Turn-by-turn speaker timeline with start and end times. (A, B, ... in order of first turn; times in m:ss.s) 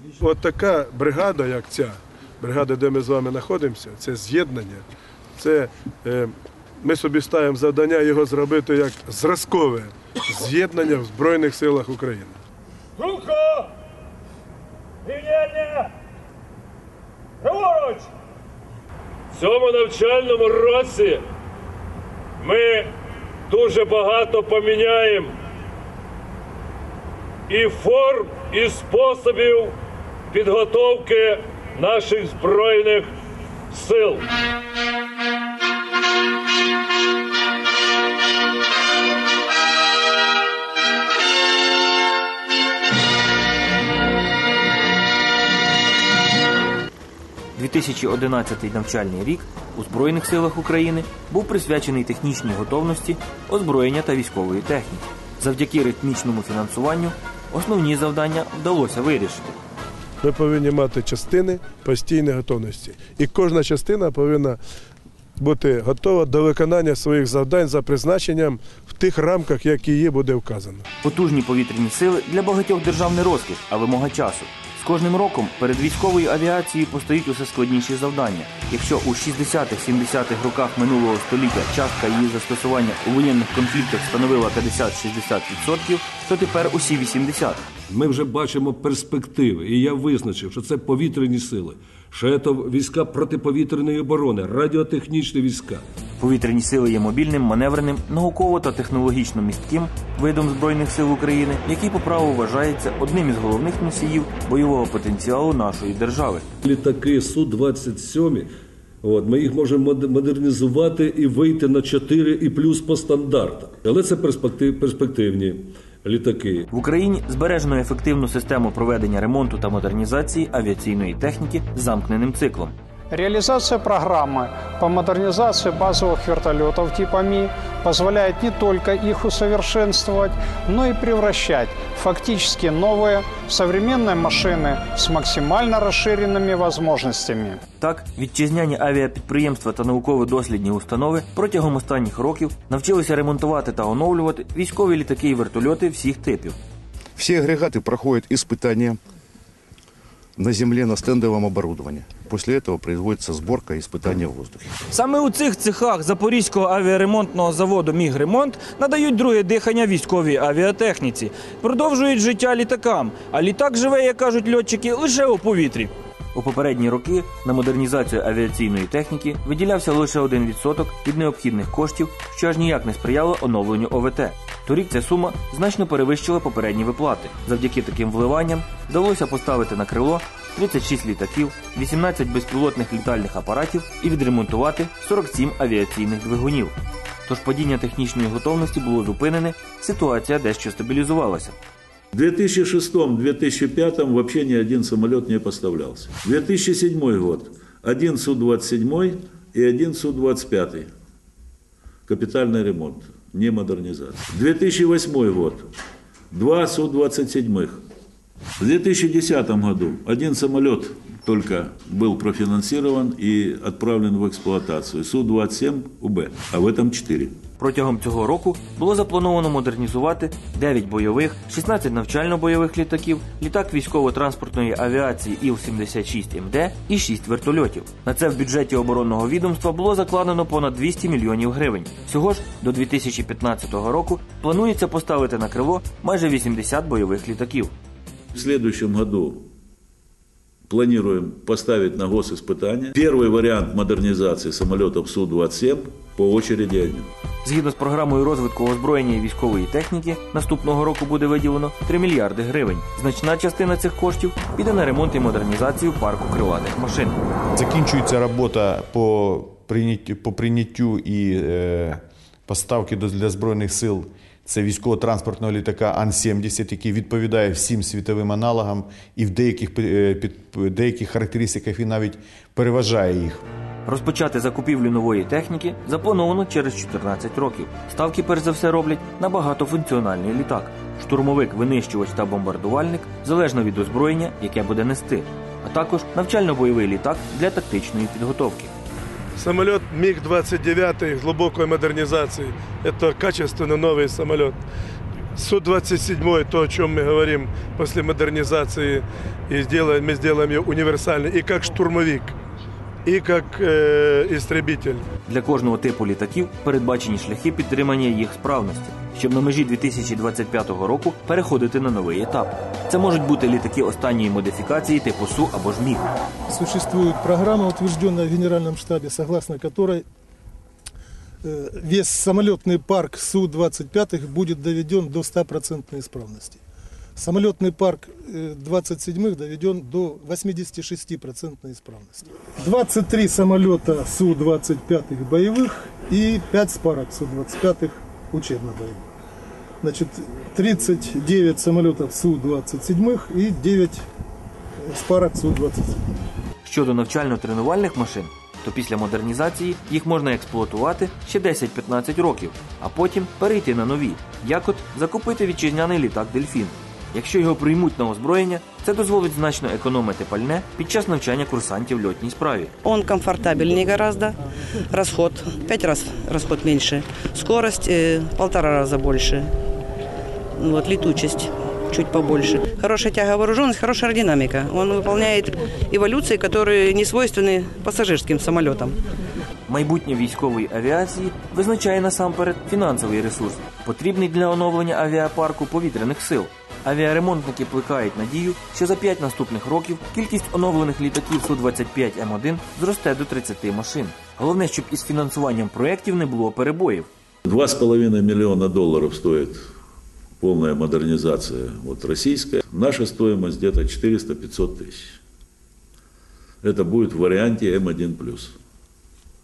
0:00.2-0:04.8 A
0:05.4-0:12.4 A
0:13.0-0:13.7 B
0:15.1-0:15.8 B
0:17.5-0:18.0 B
0:19.3-0:21.2 B
0:22.4-0:22.9 B
0:23.5-0:25.3 B
0:27.5-0:29.7 B
0:30.3-0:33.1 B
0:33.7-0:34.2 B
0:47.6-0:59.5 C
1:00.2-1:04.6 A
1:05.4-1:10.8 A
1:11.0-1:27.6 C
1:27.9-1:35.8 D
1:36.2-1:46.4 C
1:46.6-1:48.5 D
1:49.0-1:56.7 D
1:56.7-2:02.7 C
2:03.1-2:17.6 E
2:17.8-2:26.6 C
2:27.2-2:29.0 F
2:30.4-2:34.7 F
2:35.0-2:45.9 G
2:46.3-3:06.7 C
3:07.3-3:11.6 C
3:12.1-3:20.9 H
3:22.1-3:25.6 H
3:26.3-3:27.8 H
3:28.6-3:37.4 H
3:37.6-3:57.7 C
3:58.3-3:59.4 H
4:00.7-4:07.1 H
4:07.4-4:17.2 C
4:17.6-4:33.4 I
4:33.8-4:48.7 C
4:49.4-4:54.6 A
4:55.4-5:02.3 A
5:03.0-5:05.0 A
5:05.3-5:16.1 C
5:16.5-5:20.0 J
5:21.4-5:26.6 J
5:27.2-5:39.1 J
5:39.8-5:44.0 J
5:44.8-5:46.2 J
5:46.6-6:02.7 C
6:02.8-6:09.5 K
6:10.6-6:19.0 K
6:19.7-6:37.1 C
6:37.4-6:39.6 H
6:40.4-6:45.2 H
6:46.6-6:48.6 H